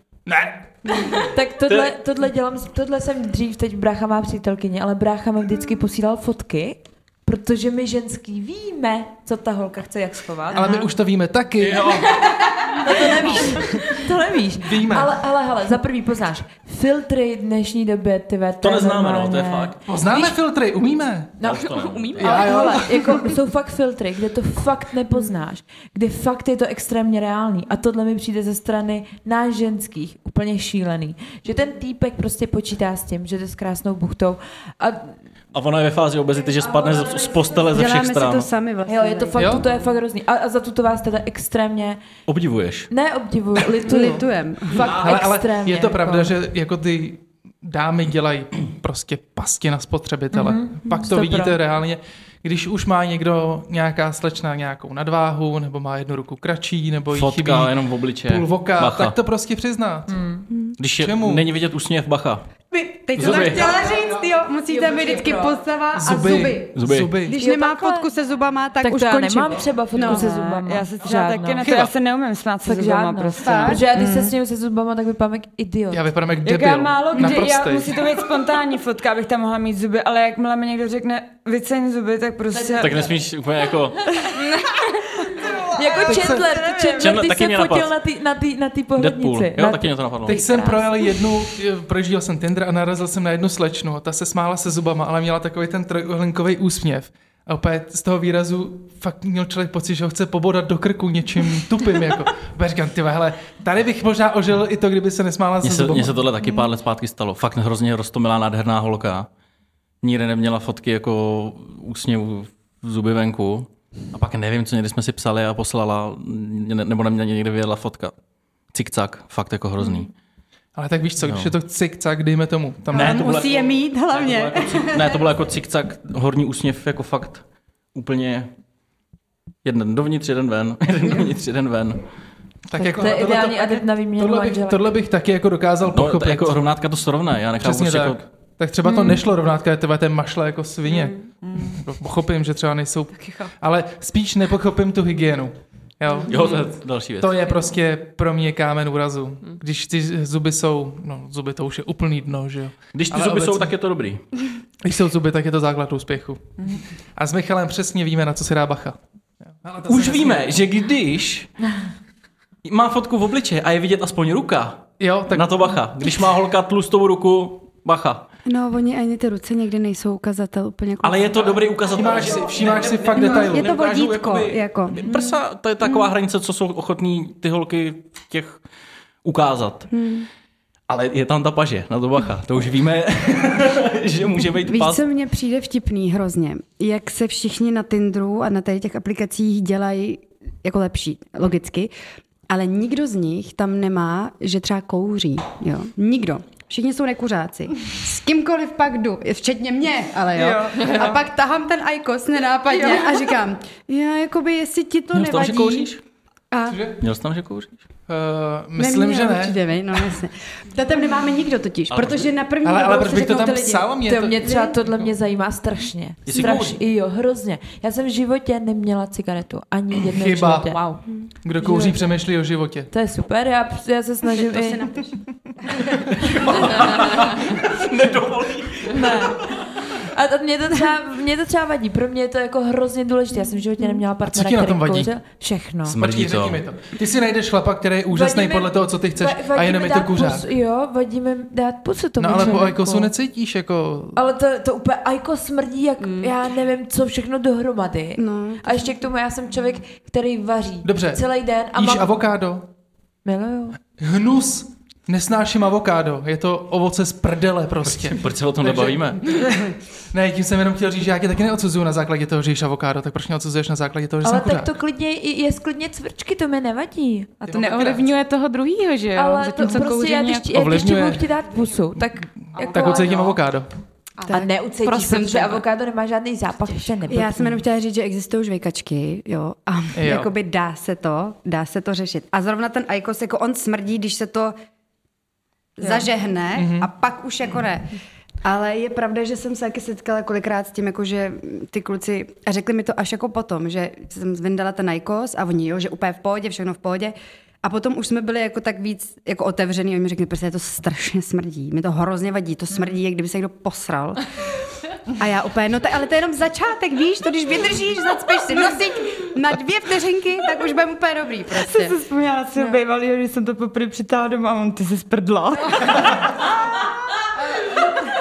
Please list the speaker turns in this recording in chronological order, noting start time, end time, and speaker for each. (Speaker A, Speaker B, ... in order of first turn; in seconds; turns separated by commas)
Speaker A: 0.3-1.3, Speaker B: 1.3-10.7, Speaker C: 1.7-1.9, Speaker D: 10.5-10.9, Speaker A: 10.5-12.2, Speaker C: 11.6-12.1, Speaker B: 12.8-20.3, Speaker A: 13.3-13.9, Speaker A: 14.6-15.2, Speaker C: 18.6-19.8, Speaker A: 19.9-21.4, Speaker B: 21.4-35.1, Speaker C: 21.4-22.4, Speaker E: 21.6-22.8, Speaker A: 22.2-23.2, Speaker C: 35.5-38.5, Speaker B: 36.6-37.6, Speaker D: 37.7-39.6, Speaker B: 38.9-42.0, Speaker A: 39.4-39.6, Speaker C: 42.3-42.9, Speaker B: 42.9-46.4, Speaker D: 43.8-44.9, Speaker C: 44.8-45.3, Speaker A: 44.9-60.2, Speaker B: 50.3-51.6, Speaker C: 57.1-59.2, Speaker B: 60.1-60.5, Speaker D: 60.5-60.8, Speaker C: 60.8-62.5, Speaker A: 61.0-61.5, Speaker D: 62.7-70.3, Speaker C: 63.1-63.8, Speaker A: 63.2-64.1, Speaker B: 63.8-64.0, Speaker B: 64.7-65.6, Speaker A: 66.0-67.3, Speaker C: 66.8-67.2, Speaker B: 67.3-68.1, Speaker B: 68.8-71.7, Speaker F: 70.0-74.3, Speaker A: 71.6-71.9, Speaker B: 72.6-76.1, Speaker D: 73.4-73.8, Speaker A: 75.9-78.1, Speaker F: 76.4-83.1, Speaker B: 82.5-83.1, Speaker C: 82.8-84.1, Speaker F: 85.2-87.2, Speaker B: 85.7-91.1, Speaker A: 86.1-86.4, Speaker C: 87.0-87.9, Speaker C: 89.0-90.4, Speaker A: 90.3-106.3, Speaker C: 105.6-109.3, Speaker C: 110.0-118.2, Speaker C: 118.7-120.1, Speaker A: 120.8-123.2, Speaker C: 121.2-121.5, Speaker D: 122.9-125.2, Speaker C: 122.9-128.5, Speaker C: 129.6-132.0, Speaker A: 132.7-136.6, Speaker B: 132.8-134.8, Speaker C: 135.9-138.2, Speaker A: 137.6-146.6, Speaker E: 140.9-141.2, Speaker F: 141.4-141.8, Speaker C: 146.3-147.4, Speaker A: 147.2-153.7, Speaker C: 152.9-154.2, Speaker A: 154.8-156.5, Speaker A: 157.2-159.0, Speaker A: 159.6-160.5, Speaker C: 159.9-161.5, Speaker C: 162.6-168.3, Speaker A: 165.0-165.6, Speaker D: 168.5-171.5, Speaker C: 171.0-178.6, Speaker A: 171.9-173.7, Speaker D: 173.2-176.1, Speaker C: 179.2-179.9, Speaker D: 179.9-180.3, Speaker C: 180.9-185.0, Speaker D: 184.7-191.9, Speaker D: 192.5-205.9, Speaker F: 200.3-201.2, Speaker F: 202.8-203.1, Speaker C: 205.1-206.0, Speaker D: 206.5-206.8, Speaker A: 206.7-207.0, Speaker C: 207.0-207.8, Speaker A: 208.1-209.6, Speaker D: 208.8-213.9, Speaker C: 211.9-212.3, Speaker A: 212.6-214.5, Speaker B: 214.0-221.1, Speaker D: 214.4-214.7, Speaker C: 216.3-216.8, Speaker A: 220.1-220.8, Speaker A: 221.4-222.9, Speaker B: 221.6-222.0, Speaker B: 222.9-224.9, Speaker D: 224.4-225.8, Speaker C: 226.2-229.4, Speaker B: 228.9-236.0, Speaker A: 234.3-235.1, Speaker C: 235.9-236.6, Speaker A: 236.0-240.5, Speaker B: 238.1-243.1, Speaker A: 242.2-244.2, Speaker B: 244.2-252.2, Speaker E: 246.0-246.3, Speaker D: 248.2-248.8, Speaker A: 250.8-252.7, Speaker B: 253.2-253.8, Speaker A: 254.0-264.7, Speaker C: 257.9-259.2, Speaker B: 264.2-267.3, Speaker E: 267.4-270.9, Speaker A: 267.5-268.1, Speaker B: 269.1-273.3, Speaker A: 270.5-271.3, Speaker A: 272.4-273.7, Speaker E: 272.7-273.3, Speaker B: 274.3-277.6, Speaker E: 274.4-275.6, Speaker D: 277.1-284.5, Speaker A: 279.9-280.3, Speaker D: 285.8-312.0, Speaker A: 286.6-286.9, Speaker F: 311.6-316.2